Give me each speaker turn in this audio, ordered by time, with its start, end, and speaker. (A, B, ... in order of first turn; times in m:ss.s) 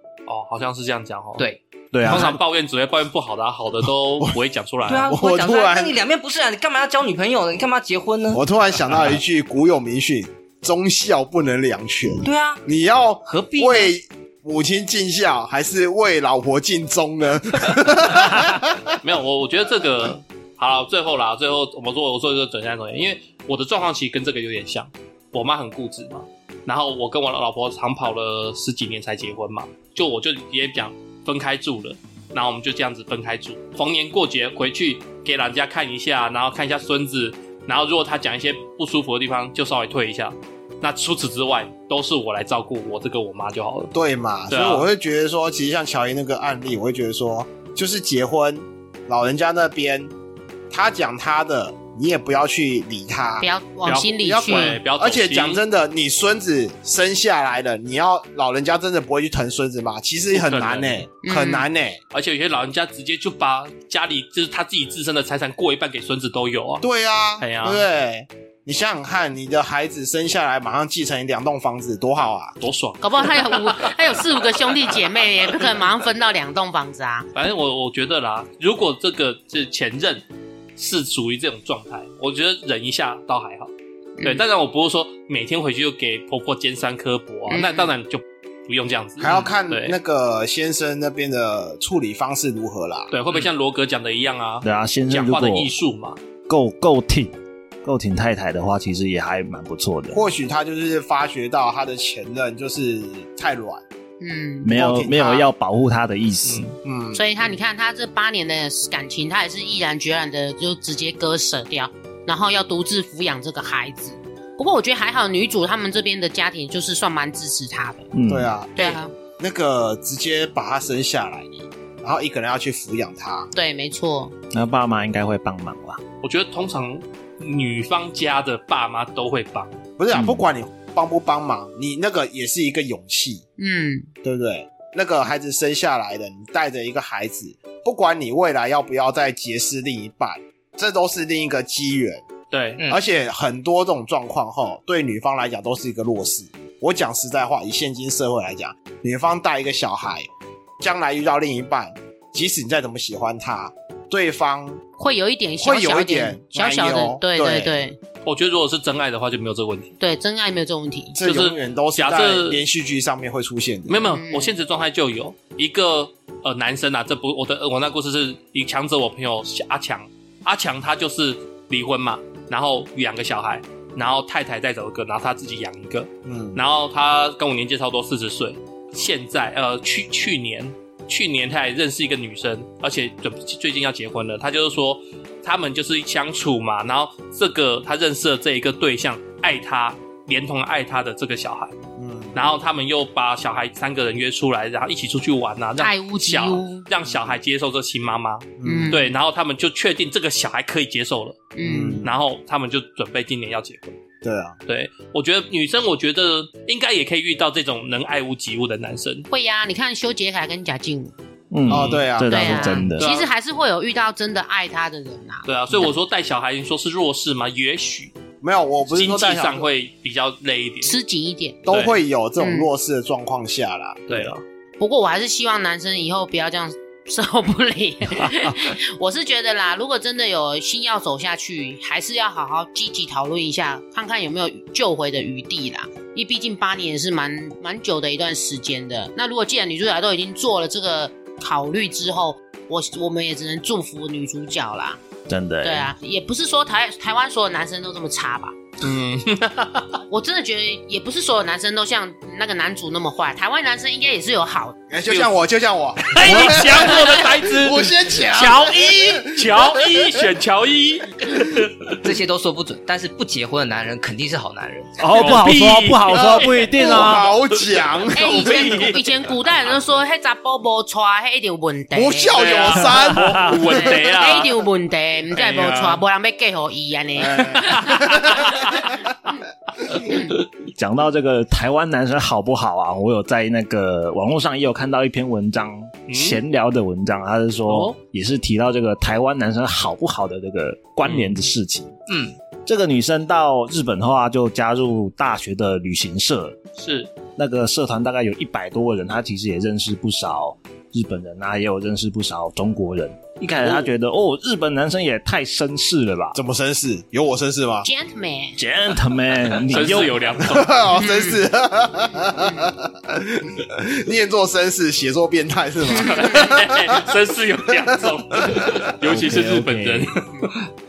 0:00.3-0:01.5 A
0:01.9-0:02.4 B
0:02.0-0:05.1 A
0:02.0-0:02.3 C
0:04.8-0:08.4 D
0:05.0-0:06.0 C
0:08.3-0:18.8 C
0:12.2-0:12.6 D
0:13.2-0:13.9 D
0:19.0-0:43.9 A
0:43.9-0:50.1 C
0:44.5-0:44.9 A
0:50.7-0:53.4 C
0:53.4-0:54.8 E
0:53.8-0:55.6 A
0:54.2-1:02.0 C
1:00.3-1:01.0 A
1:01.2-1:01.6 E
1:02.1-1:06.9 A
1:06.8-1:12.6 C
1:07.4-1:07.8 A
1:12.6-1:15.0 A
1:13.0-1:17.3 E
1:17.3-1:20.2 A
1:20.8-1:23.7 A
1:24.2-1:24.4 E
1:24.2-1:30.0 A
1:27.5-1:27.9 E
1:29.2-1:33.1 C
1:33.1-1:36.2 A
1:34.6-1:35.7 B
1:36.5-1:40.2 B
1:40.1-1:43.8 C
1:44.2-1:44.7 E
1:44.6-1:46.7 B
1:44.7-1:45.4 C
1:46.4-1:46.8 A
1:46.8-1:47.2 C
1:47.1-1:58.1 E
1:58.1-1:58.5 B
1:58.3-2:03.5 C
1:58.8-1:59.1 E
2:03.5-2:04.3 E
2:04.5-2:06.0 B
2:06.2-2:09.8 A
2:10.0-2:13.4 C
2:10.1-2:10.4 B
2:13.6-2:14.1 E
2:14.2-2:22.2 C
2:22.5-2:22.8 A
2:22.9-2:30.3 C
2:30.8-2:34.8 C
2:35.0-2:38.0 E
2:35.6-2:37.8 C
2:38.2-2:40.0 A
2:40.0-2:41.2 E
2:41.1-2:44.0 C
2:41.2-2:42.6 A
2:43.9-3:11.8 A
2:44.0-2:44.5 E
2:56.2-2:56.6 C
3:12.0-3:12.4 C
3:12.3-3:21.5 A
3:15.8-3:16.9 E
3:18.6-3:19.0 C
3:18.6-3:19.1 E
3:21.5-3:22.0 E
3:21.6-3:22.1 C
3:22.0-3:24.0 A
3:24.2-3:24.6 C
3:24.7-3:29.3 A
3:29.3-3:31.1 E
3:31.5-3:33.1 B
3:31.7-3:32.8 C
3:31.7-3:32.1 A
3:32.2-3:35.9 E
3:32.8-3:33.3 A
3:35.4-3:38.1 A
3:38.4-3:39.6 C
3:38.8-3:40.9 A
3:40.8-3:41.6 E
3:41.6-3:44.4 C
3:41.7-3:42.0 A
3:42.4-3:42.7 E
3:44.1-3:44.4 A
3:44.8-4:05.0 E
4:05.3-4:05.9 B
4:05.6-4:08.6 E
4:08.8-4:10.0 A
4:10.1-4:14.8 E
4:14.9-4:20.2 C
4:15.1-4:15.3 A
4:16.1-4:22.0 A
4:16.2-4:16.5 B
4:22.0-4:25.0 D
4:25.0-4:27.3 B
4:25.1-4:27.2 A
4:26.1-4:29.0 C
4:27.7-4:29.0 A
4:28.1-4:32.9 E
4:31.9-4:33.9 C
4:32.4-4:34.6 A
4:33.0-4:33.6 B
4:33.6-4:38.7 E
4:35.3-4:36.0 A
4:37.2-4:38.6 C
4:37.6-4:38.8 A
4:40.7-4:52.0 B
4:46.1-4:46.4 A
4:51.0-4:51.5 A
4:52.1-4:52.3 D
4:52.6-4:56.6 B
4:56.8-4:57.1 A
4:57.4-5:06.4 B
5:06.3-5:07.9 C
5:07.8-5:08.6 E
5:08.6-5:10.4 B
5:09.7-5:10.8 A
5:10.4-5:17.1 C
5:10.9-5:11.4 E
5:15.9-5:20.6 A
5:16.0-5:16.5 E
5:17.8-5:18.8 C
5:19.0-5:20.1 B